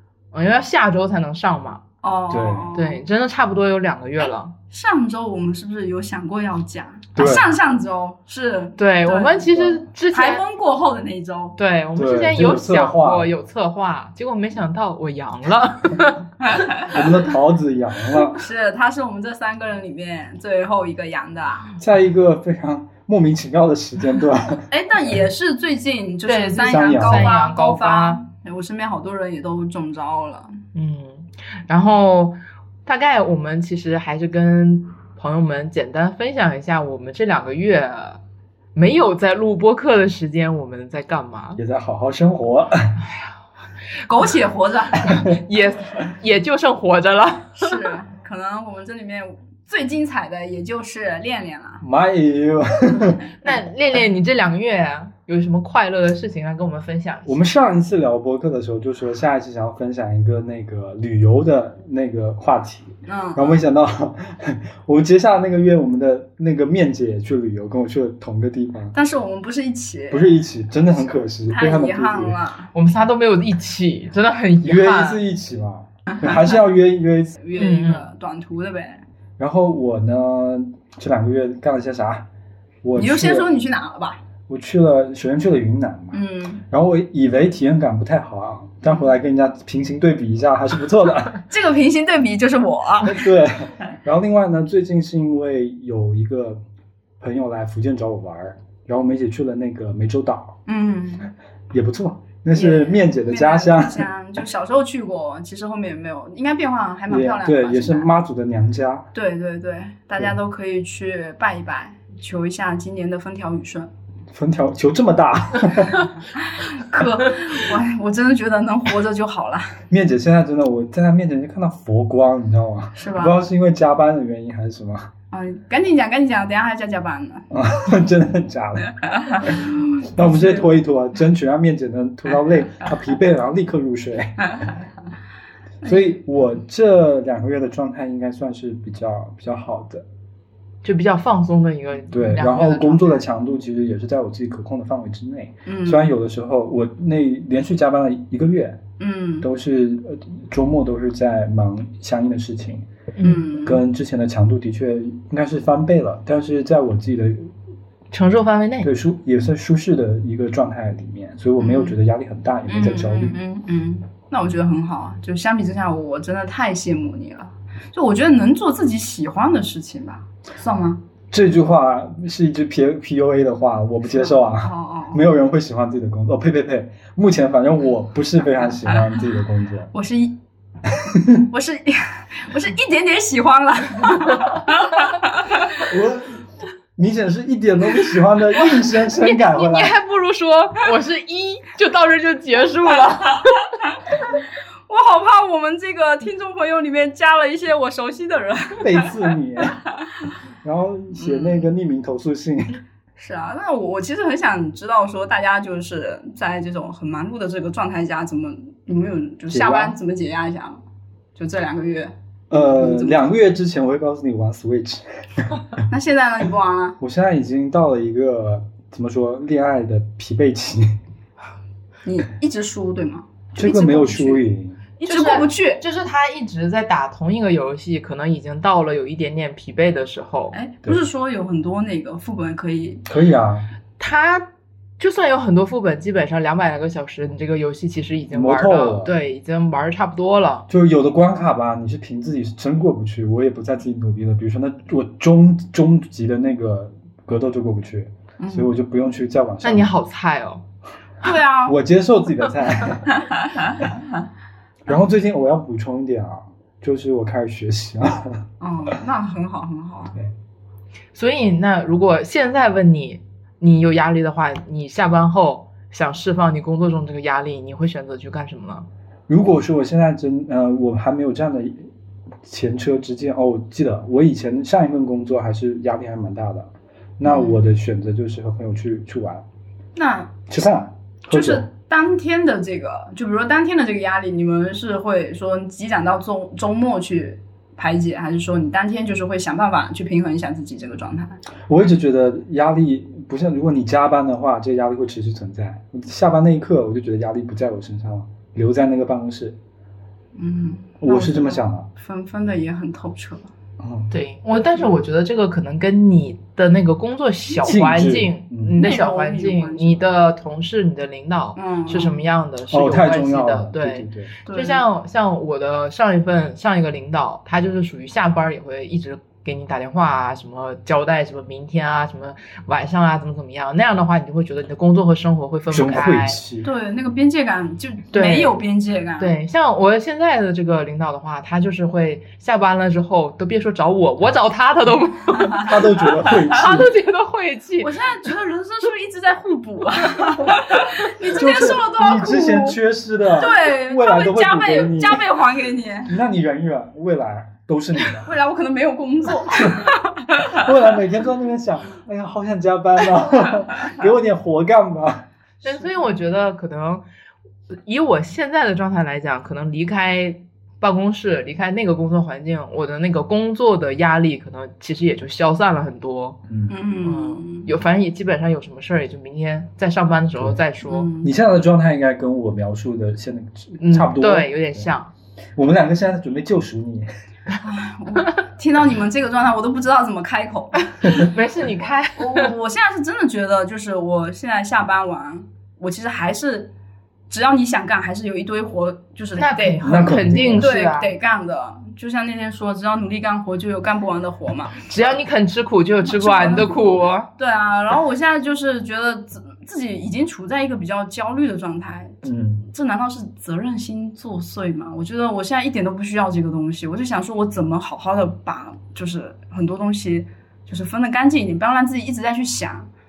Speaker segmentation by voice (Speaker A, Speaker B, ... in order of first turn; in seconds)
Speaker A: 0.3-1.8, 2.8-4.5, 8.8-10.4, 11.6-16.2, 26.3-28.2, 30.7-38.2, 38.8-41.6, 45.2-47.8, 53.4-57.4, 72.7-75.2, 77.6-78.0, 140.8-143.2, 153.2-153.4, 158.1-158.9, 189.1-193.7, 225.1-230.6, 234.0-234.5, 235.0-240.7, 249.6-250.6, 261.1-268.9, 304.1-326.4, 328.1-328.5, 329.2-335.7, 336.5-337.9, 355.6-357.0, 357.9-366.4, 367.1-371.1, 373.8-375.1, 381.0-382.5, 389.4-391.1, 394.9-397.3
Speaker B: 2.0-3.0, 4.2-9.5, 10.1-11.6, 16.5-16.9, 18.3-21.8, 24.7-30.5, 44.1-45.1, 47.6-51.8, 63.1-63.6, 68.9-70.4, 71.5-72.7, 76.1-76.6, 77.4-79.0, 83.0-84.2, 86.1-86.6, 91.5-93.3, 100.7-101.3, 102.5-108.1, 109.1-113.9, 116.4-119.8, 123.0-123.4, 125.3-127.5, 129.2-130.7, 135.8-136.1, 145.7-146.1, 149.0-149.5, 153.2-153.8, 161.6-162.0, 162.7-171.0, 174.2-175.2, 178.9-179.1, 179.9-180.4, 181.5-185.8, 194.9-199.3, 201.2-201.7, 203.2-210.8, 211.4-213.3, 215.9-217.0, 222.1-224.4, 225.0-225.8, 230.5-233.0, 248.4-248.7, 251.2-251.8, 258.6-260.2, 277.2-277.6, 280.0-280.5, 281.3-291.4, 300.4-303.5, 308.8-310.1, 311.6-312.2, 314.5-314.8, 326.6-329.3, 337.8-342.8, 343.3-346.2, 348.2-350.6, 366.7-367.7, 370.9-371.3, 377.6-380.9, 382.2-386.7, 387.3-394.9, 396.1-412.9
Speaker C: 2.3-2.7, 7.2-7.5, 9.5-9.8, 12.0-13.3, 16.9-18.4, 21.8-24.6, 26.7-27.3, 41.6-43.0, 45.0-45.3, 51.8-53.2, 57.3-69.0, 70.1-72.4, 74.6-77.4, 79.4-82.3, 82.8-83.5, 84.5-91.4, 93.0-96.6, 97.2-100.6, 101.7-104.1, 107.1-109.1, 114.3-116.1, 119.9-125.1, 127.5-134.6, 135.8-140.0, 142.1-148.8, 149.4-152.9, 153.6-157.5, 158.8-163.4, 171.3-179.9, 181.1-181.4, 185.8-186.4, 187.0-190.0, 198.8-199.8, 200.6-202.8, 209.5-210.0, 212.5-215.8, 217.0-221.0, 223.6-224.8, 233.1-233.7, 238.3-239.1, 240.7-249.9, 251.7-253.1, 254.9-258.4, 269.3-271.9, 272.4-279.4, 280.5-281.7, 291.7-299.6, 301.0-301.9, 303.8-304.1, 307.6-308.8, 312.7-314.3, 325.7-326.7, 335.6-336.9, 341.3-345.3, 346.1-348.3, 349.6-349.9, 350.4-355.3, 366.5-366.7, 371.2-374.9, 375.6-377.1, 389.8-390.7, 402.2-402.7